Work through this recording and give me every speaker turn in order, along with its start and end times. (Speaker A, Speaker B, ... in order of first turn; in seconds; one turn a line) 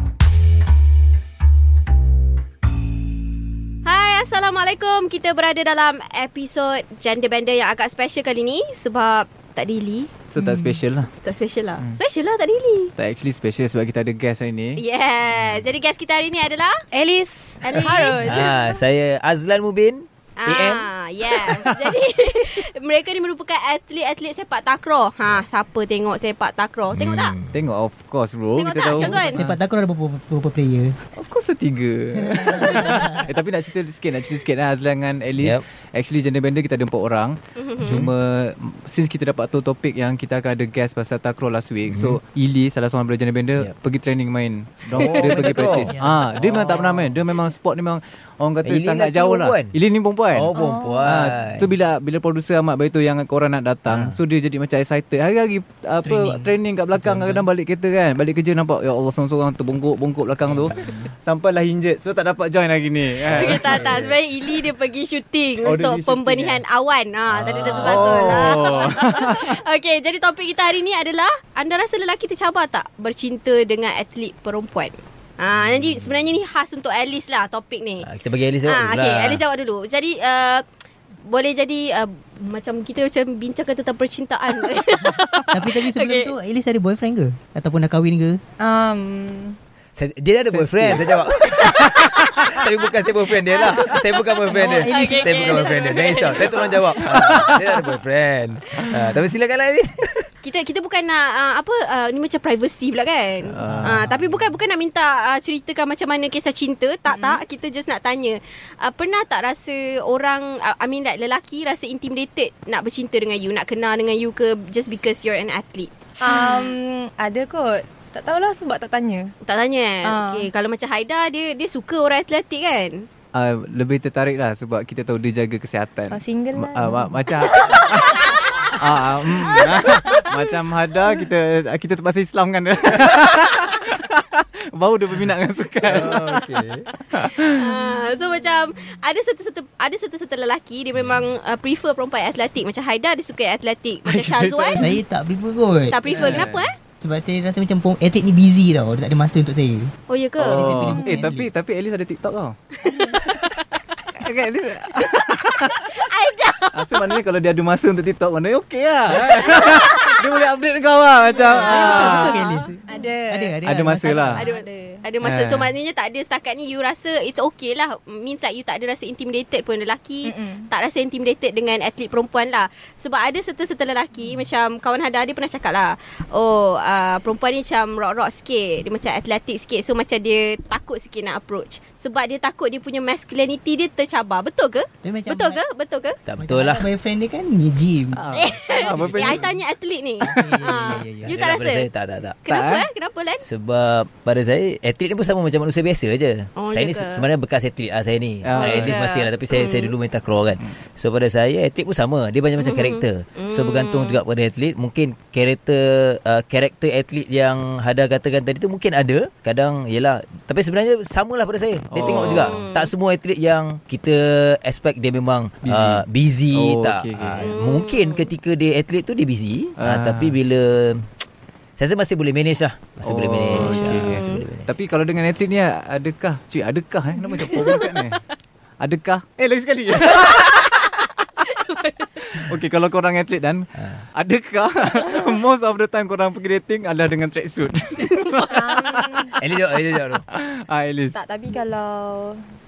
Speaker A: 3.9-10.1
Speaker B: 10.3-11.1
Speaker C: 10.4-10.8
Speaker A: 11.2-12.9
Speaker B: 13.0-14.8
Speaker A: 14.8-16.8
Speaker D: 15.3-15.6
Speaker C: 16.9-18.6
Speaker A: 17.6-18.6
Speaker D: 18.2-20.9
Speaker A: 20.4-27.4
Speaker D: 26.9-27.6
Speaker B: 27.5-29.6
Speaker A: 28.6-29.4
Speaker E: 28.9-31.0
Speaker B: 31.2-50.5
Speaker E: 32.2-33.3
Speaker D: 35.4-35.6
Speaker A: 37.6-38.1
Speaker D: 41.9-42.2
Speaker D: 44.9-46.0
Speaker A: 45.0-45.5
Speaker E: 45.4-47.1
Speaker D: 48.6-49.8
Speaker D: 50.3-51.7
Speaker B: 51.0-63.9
Speaker D: 53.9-54.2
Speaker E: 56.0-57.5
Speaker A: 63.2-78.1
Speaker D: 63.3-64.2
Speaker B: 65.6-66.6
Speaker D: 67.3-68.4
Speaker B: 67.7-69.5
Speaker D: 75.5-76.4
Speaker D: 78.0-79.4
Speaker A: 78.6-80.7
Speaker A: 81.2-86.3
Speaker E: 85.5-88.4
Speaker C: 88.6-89.6
Speaker D: 90.0-100.3
Speaker B: 90.5-91.1
Speaker A: 93.5-94.3
Speaker E: 94.5-96.1
Speaker A: 94.9-97.5
Speaker A: 100.4-116.7
Speaker B: 103.5-104.4
Speaker E: 103.6-104.0
Speaker C: 116.2-119.3
Speaker A: 119.4-123.1
Speaker C: 120.0-120.5
Speaker B: 123.3-128.2
Speaker C: 126.1-127.2
Speaker A: 127.7-128.4
Speaker B: 128.7-136.5
Speaker A: 129.4-129.9
Speaker D: 135.8-136.9
Speaker B: 137.1-137.7
Speaker A: 137.4-144.9
Speaker B: 144.1-145.0
Speaker E: 144.8-151.5
Speaker A: 145.9-146.8
Speaker B: 146.1-146.7
Speaker A: 150.1-150.6
Speaker B: 150.4-152.6
Speaker C: 150.9-151.3
Speaker A: 152.8-153.4
Speaker B: 154.2-155.8
Speaker A: 155.0-155.3
Speaker A: 155.9-157.0
Speaker B: 156.7-162.3
Speaker A: 159.3-160.1
Speaker A: 161.4-162.7
Speaker E: 161.5-164.4
Speaker C: 162.9-163.6
Speaker B: 163.7-164.4
Speaker C: 164.3-165.0
Speaker A: 164.4-186.2
Speaker B: 165.2-165.7
Speaker C: 170.2-170.7
Speaker E: 185.0-185.6
Speaker D: 186.3-186.9
Speaker E: 186.4-189.4
Speaker B: 188.1-189.6
Speaker A: 188.4-191.9
Speaker E: 190.2-191.3
Speaker D: 191.3-192.4
Speaker A: 192.4-193.4
Speaker B: 192.5-192.9
Speaker D: 193.4-221.2
Speaker A: 196.6-197.3
Speaker B: 198.4-199.0
Speaker A: 198.6-199.9
Speaker A: 202.6-204.2
Speaker B: 211.9-212.6
Speaker A: 212.0-212.9
Speaker B: 215.6-217.4
Speaker A: 217.4-218.3
Speaker B: 219.8-220.3
Speaker D: 221.8-224.7
Speaker B: 223.0-228.2
Speaker A: 223.6-224.4
Speaker B: 228.8-230.7
Speaker A: 230.4-230.9
Speaker A: 231.4-232.2
Speaker B: 232.3-238.6
Speaker C: 238.5-239.4
Speaker D: 239.4-240.2
Speaker B: 240.2-241.2
Speaker C: 241.1-242.4